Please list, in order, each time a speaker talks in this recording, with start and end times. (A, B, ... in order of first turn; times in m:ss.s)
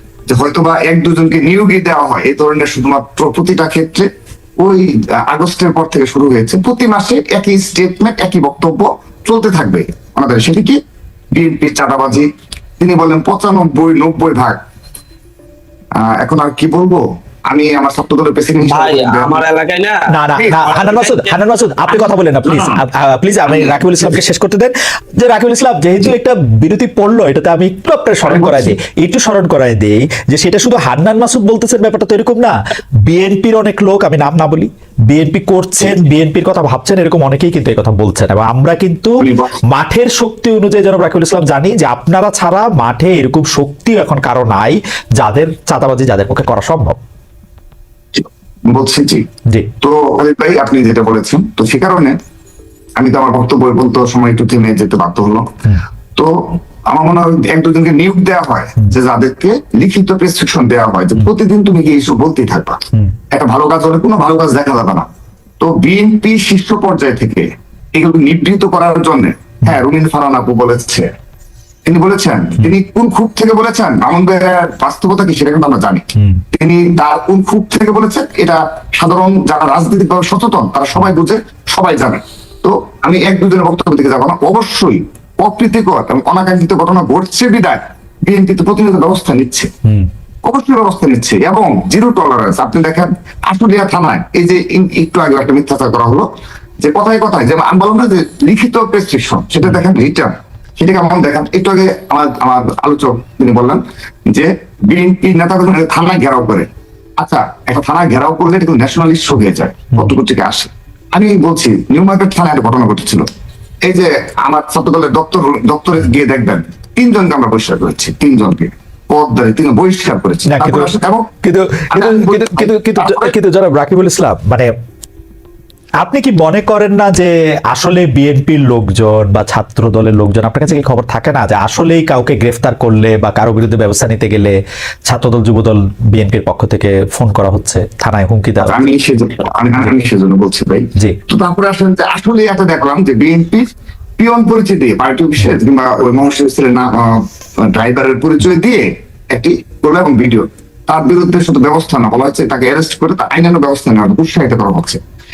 0:00.3-0:04.1 A
0:04.6-0:10.8 A
0:11.3-0:12.3 A
0:12.8-0:14.6 A
0:16.0-0:19.4 A
0:18.6-0:21.4 B
0:20.1-0:32.6 C
0:20.4-0:20.7 A
0:21.9-0:22.8 A
0:23.5-0:24.2 A
0:28.2-0:28.8 A
0:33.1-0:47.0 C
0:39.2-0:39.6 A
0:48.2-0:49.2 A
0:49.8-0:52.2 A
0:53.0-0:55.5 A
0:56.9-1:02.8 A
1:03.3-1:05.1 A
1:05.6-1:11.1 A
1:11.9-1:29.7 A
1:16.2-1:16.4 C
1:30.4-1:36.3 A
1:36.8-1:46.7 A
1:47.2-1:53.2 A
1:53.9-2:01.3 A
2:00.4-2:04.7 C
2:01.9-2:03.4 A
2:06.0-2:14.6 C
2:15.1-2:18.8 C
2:18.7-2:23.7 A
2:24.2-2:35.0 A